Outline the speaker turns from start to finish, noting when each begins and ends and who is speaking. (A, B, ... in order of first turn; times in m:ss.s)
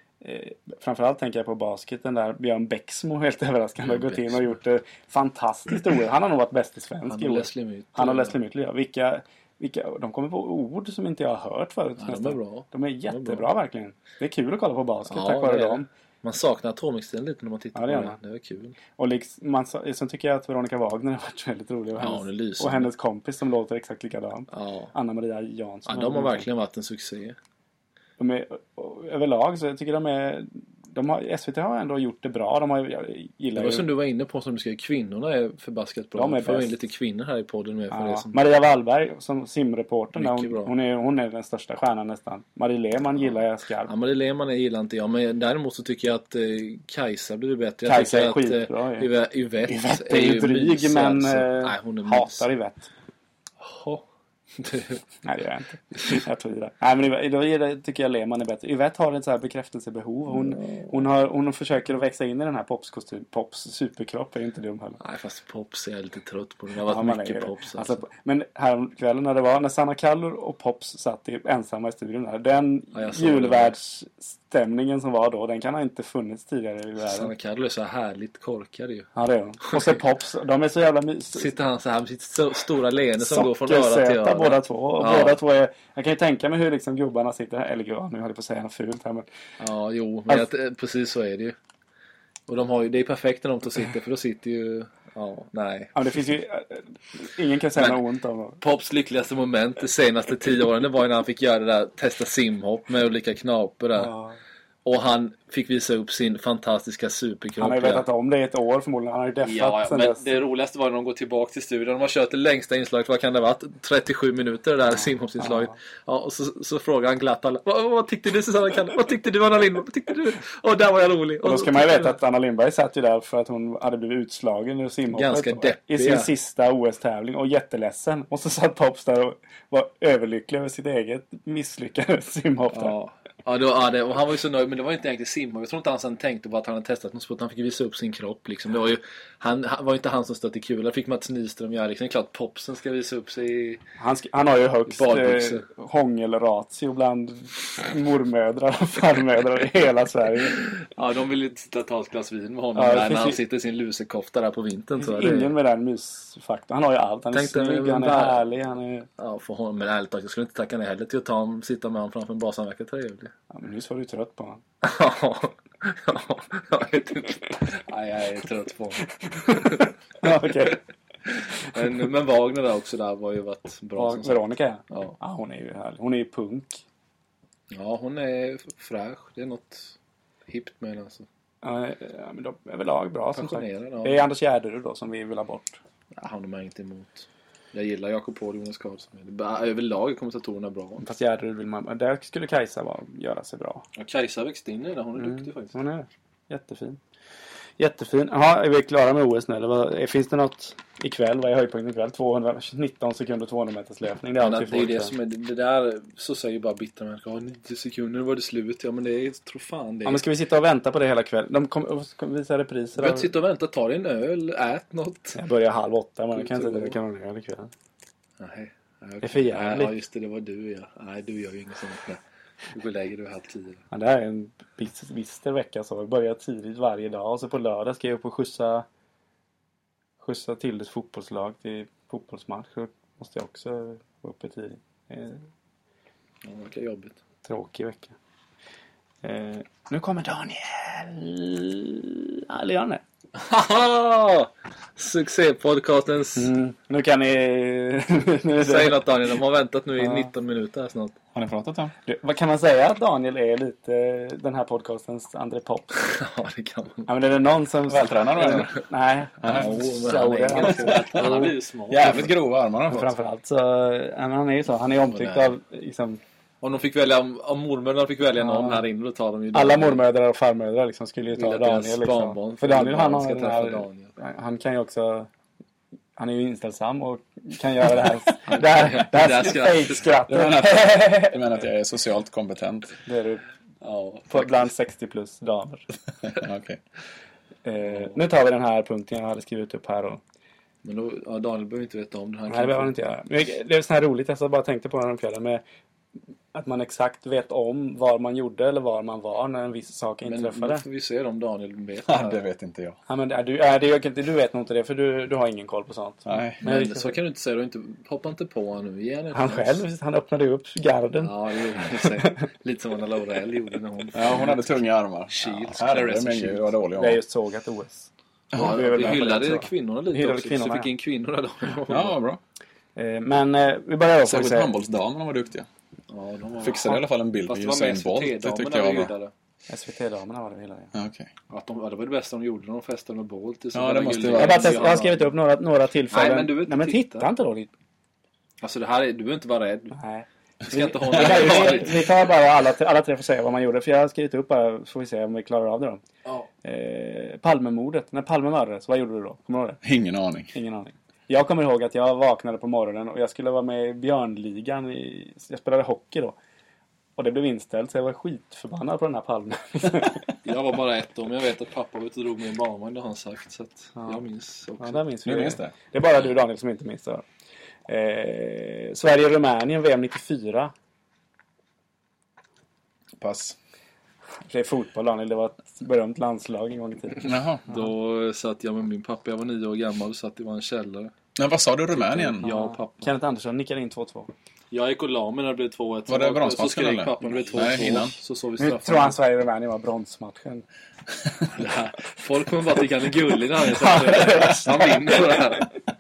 0:00.2-0:15.9 A
0:03.8-0:04.4 B
0:07.1-0:08.4 B
0:12.0-0:13.5 B
0:15.1-0:18.8 B
0:17.8-0:18.2 A
0:19.0-0:26.5 A
0:22.0-0:22.9 B
0:24.5-0:24.9 B
0:25.9-0:27.4 B
0:28.2-0:33.9 A
0:33.6-0:38.4 B
0:36.2-0:36.7 A
0:37.9-0:43.9 A
0:40.2-0:40.7 B
0:43.2-0:52.5 B
0:47.9-0:49.1 A
0:49.7-0:52.9 A
0:53.6-0:54.0 B
0:54.6-0:55.0 B
0:55.2-1:05.0 A
1:00.3-1:01.0 B
1:05.0-1:08.0 B
1:06.9-1:17.3 A
1:12.9-1:13.8 B
1:17.0-1:19.1 B
1:19.2-1:21.5 A
1:19.6-1:20.0 B
1:21.3-1:25.4 B
1:23.2-1:29.3 A
1:29.6-1:31.6 B
1:32.5-1:36.0 B
1:36.0-1:38.6 A
1:38.6-1:44.1 B
1:44.0-1:44.4 A
1:44.8-1:48.1 B
1:47.6-1:50.2 A
1:49.4-2:02.2 B
2:01.4-2:13.0 A
2:05.1-2:06.3 B
2:12.7-2:23.8 B
2:24.0-2:30.7 A
2:24.9-2:25.6 B
2:30.6-2:35.5 B
2:32.8-2:33.4 A
2:35.0-2:39.1 A
2:37.3-2:38.4 B
2:39.2-2:43.3 B
2:43.5-2:44.6 A
2:44.8-2:49.7 B
2:49.5-2:50.8 A
2:51.3-2:55.2 B
2:54.0-2:56.8 A
2:57.7-3:00.0 B
3:00.5-3:01.3 B
3:01.6-3:05.8 A
3:03.4-3:04.2 B
3:06.1-3:11.0 B
3:11.0-3:13.9 A
3:14.0-3:15.8 B
3:15.2-3:17.0 A
3:17.8-3:25.1 A
3:24.4-3:30.2 B
3:30.0-3:33.3 A
3:33.0-3:35.4 B
3:35.4-3:37.7 A
3:36.3-3:37.0 B
3:38.4-3:43.8 B
3:39.2-3:40.0 A
3:43.9-3:48.9 A
3:50.2-3:55.4 A
3:56.4-3:57.2 B
3:57.4-3:58.2 A
3:59.2-4:03.0 A
4:03.4-4:06.5 B
4:06.4-4:09.0 A
4:08.6-4:11.2 B
4:10.0-4:10.3 A
4:11.3-4:11.9 C
4:12.1-4:16.1 A
4:16.0-4:17.1 B
4:17.1-4:21.5 A
4:17.9-4:18.8 C
4:19.4-4:19.7 C
4:19.4-4:22.4 B
4:20.6-4:23.1 C
4:22.9-4:26.2 A
4:25.1-4:25.6 B
4:26.6-4:30.0 B
4:28.4-4:28.8 A
4:29.5-4:35.3 A
4:31.3-4:34.1 B
4:36.2-4:41.4 A
4:38.5-4:40.1 B
4:40.3-4:43.0 C
4:43.0-4:43.4 A
4:43.8-4:44.7 B
4:44.3-4:45.9 A
4:46.2-4:46.8 C
4:47.6-4:50.2 A
4:47.9-4:48.1 B
4:50.8-4:53.0 B
4:52.5-4:55.6 A
4:56.5-5:00.8 A
5:00.2-5:02.4 B
5:02.1-5:03.0 C
5:03.1-5:07.2 A
5:06.3-5:06.6 C
5:06.6-5:09.8 B
5:09.3-5:12.4 A
5:11.2-5:14.6 B
5:14.1-5:17.2 C
5:15.3-5:16.7 B
5:17.0-5:20.9 A
5:18.5-5:18.8 C
5:18.5-5:22.2 B
5:21.9-5:22.4 C
5:23.0-5:24.8 A
5:24.2-5:25.7 C
5:26.1-5:29.3 B
5:26.6-5:29.1 C
5:29.7-5:30.9 A
5:30.9-5:31.3 C
5:31.5-5:35.3 B
5:33.7-5:34.9 C
5:34.4-5:37.7 A
5:36.1-5:37.3 B
5:38.6-5:40.0 B
5:39.9-5:46.0 A
5:40.7-5:42.2 B
5:46.6-5:49.8 A
5:49.8-5:50.5 C
5:50.5-5:56.4 A
5:57.2-6:00.3 A
6:00.4-6:05.0 B
6:04.8-6:07.2 A
6:05.2-6:05.7 C
6:07.9-6:10.7 A
6:13.2-6:13.6 C
6:14.5-6:17.3 A
6:17.2-6:17.7 C
6:17.7-6:21.1 B
6:21.4-6:22.5 C
6:22.1-6:23.1 B
6:22.4-6:24.3 A
6:24.7-6:29.2 B
6:26.1-6:28.2 C
6:28.6-6:30.6 A
6:31.5-6:35.7 B
6:33.7-6:35.1 A